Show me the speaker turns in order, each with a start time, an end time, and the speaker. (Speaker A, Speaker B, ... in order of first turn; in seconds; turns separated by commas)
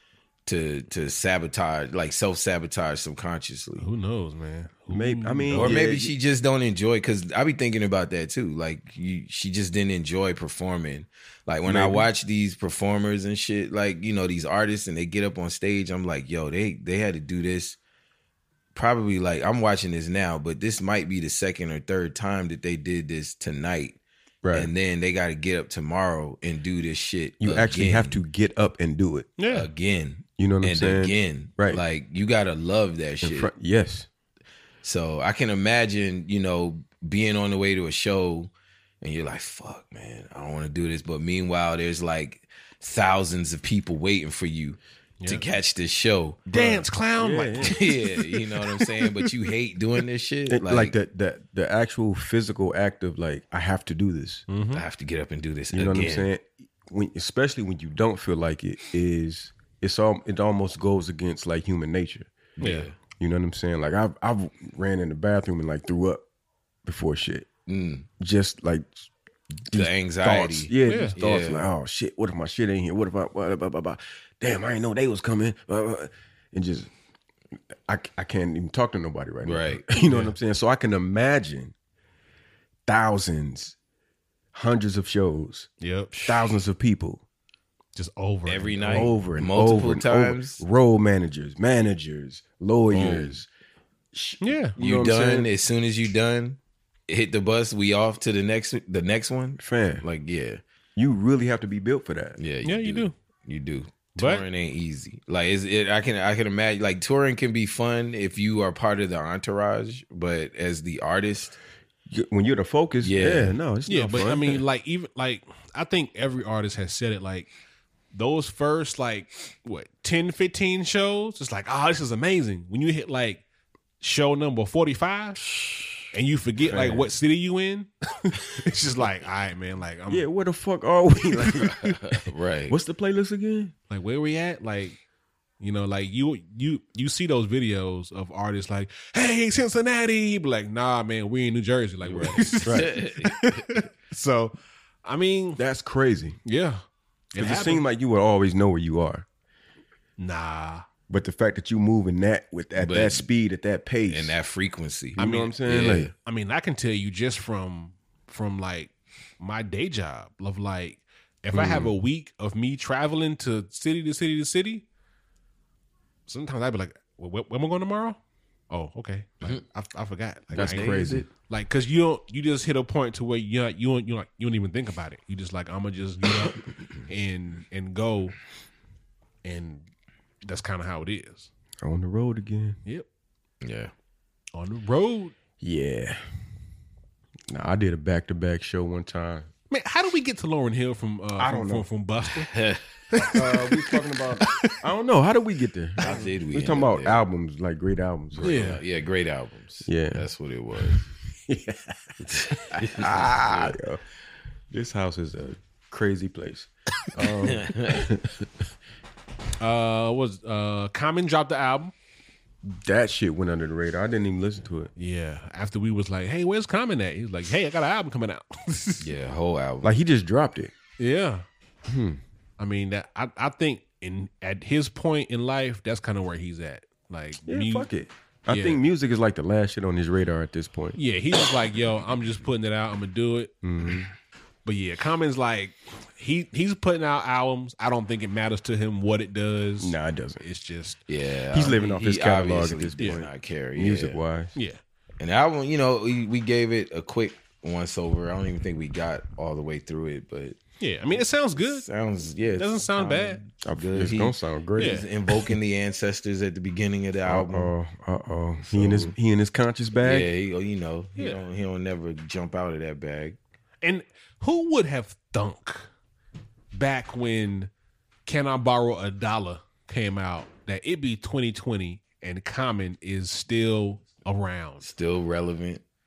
Speaker A: 0.5-3.9, Speaker B: 3.8-5.8, Speaker C: 4.9-6.1, Speaker A: 5.5-17.8, Speaker C: 11.7-12.1, Speaker A: 18.8-24.0, Speaker C: 24.4-24.7, Speaker A: 24.5-28.2, Speaker C: 27.4-29.3, Speaker B: 29.4-29.7, Speaker A: 29.5-33.5, Speaker C: 30.4-31.8, Speaker C: 33.2-34.1, Speaker A: 34.8-38.5, Speaker A: 39.0-46.4, Speaker C: 46.5-47.8, Speaker B: 46.5-48.4, Speaker A: 47.6-51.0, Speaker C: 50.5-54.5, Speaker B: 54.5-54.8, Speaker A: 54.7-56.3, Speaker C: 55.7-62.3, Speaker A: 62.6-63.0, Speaker B: 62.6-62.9, Speaker C: 63.2-66.2, Speaker C: 66.8-67.5, Speaker A: 67.7-68.1, Speaker C: 68.2-69.1, Speaker C: 69.7-76.9, Speaker A: 69.7-71.7, Speaker B: 70.9-71.2, Speaker C: 77.9-81.7, Speaker A: 79.4-79.8, Speaker B: 80.1-80.3, Speaker C: 82.9-83.8, Speaker C: 84.5-85.7, Speaker B: 85.8-86.2, Speaker A: 86.1-86.4, Speaker C: 86.2-87.2, Speaker B: 88.0-89.1, Speaker A: 88.5-90.6, Speaker C: 88.9-93.5, Speaker A: 92.9-93.4, Speaker C: 94.1-95.5, Speaker B: 94.4-94.8, Speaker A: 94.8-100.6, Speaker C: 99.6-100.1, Speaker C: 101.0-102.4, Speaker A: 102.4-111.6, Speaker B: 102.6-103.1, Speaker B: 104.2-104.5, Speaker C: 112.1-114.6, Speaker A: 113.0-113.6, Speaker B: 113.9-117.5, Speaker B: 118.1-123.4, Speaker B: 124.0-125.4, Speaker A: 125.5-126.0, Speaker B: 126.1-130.3, Speaker A: 126.7-127.0, Speaker C: 130.1-132.1, Speaker A: 131.5-132.8, Speaker C: 132.7-133.7, Speaker B: 133.9-135.0, Speaker B: 135.6-144.5, Speaker A: 142.0-143.8, Speaker C: 142.6-142.9, Speaker B: 145.1-145.6, Speaker C: 145.6-146.4, Speaker B: 146.4-146.8, Speaker B: 147.3-147.8, Speaker C: 147.4-149.3, Speaker B: 150.2-150.9, Speaker C: 151.1-154.4, Speaker A: 152.8-153.3, Speaker A: 154.1-156.1, Speaker C: 155.2-156.1, Speaker B: 155.2-155.5, Speaker B: 156.2-164.8, Speaker A: 161.6-161.8, Speaker C: 161.6-161.9, Speaker B: 166.3-168.2, Speaker B: 168.7-178.4, Speaker C: 170.5-171.3, Speaker A: 170.5-171.3, Speaker B: 179.4-179.9, Speaker B: 180.4-181.5, Speaker C: 181.8-182.8, Speaker A: 183.6-183.9, Speaker B: 184.6-185.3, Speaker C: 185.6-186.2, Speaker C: 187.5-189.5, Speaker B: 189.7-192.5, Speaker C: 191.4-191.9, Speaker A: 192.4-193.3, Speaker B: 193.1-193.4, Speaker C: 193.3-198.7, Speaker B: 194.4-194.8, Speaker A: 196.0-197.2, Speaker A: 198.3-201.1, Speaker B: 198.4-198.8, Speaker C: 199.9-200.3, Speaker A: 202.2-203.8, Speaker C: 202.7-204.0, Speaker C: 204.7-208.5, Speaker A: 207.4-208.1, Speaker B: 209.6-211.9, Speaker C: 212.7-214.9, Speaker B: 215.0-219.1, Speaker A: 219.0-219.9, Speaker C: 219.8-220.7, Speaker B: 221.0-221.4, Speaker C: 221.9-222.2, Speaker B: 222.6-227.9, Speaker C: 227.5-231.0, Speaker B: 228.5-228.8, Speaker B: 231.0-233.5, Speaker C: 233.6-234.1, Speaker B: 234.7-241.0, Speaker C: 239.8-240.4, Speaker A: 241.1-244.2, Speaker C: 241.5-244.6, Speaker B: 244.6-244.8, Speaker A: 245.2-250.6, Speaker B: 250.8-251.9, Speaker A: 251.2-257.7, Speaker B: 252.6-253.4, Speaker C: 253.6-255.0, Speaker B: 254.8-255.1, Speaker C: 257.3-260.3, Speaker A: 258.6-259.1, Speaker A: 260.0-263.4, Speaker B: 263.8-265.9, Speaker B: 266.7-267.7, Speaker B: 268.3-274.9, Speaker A: 274.8-275.8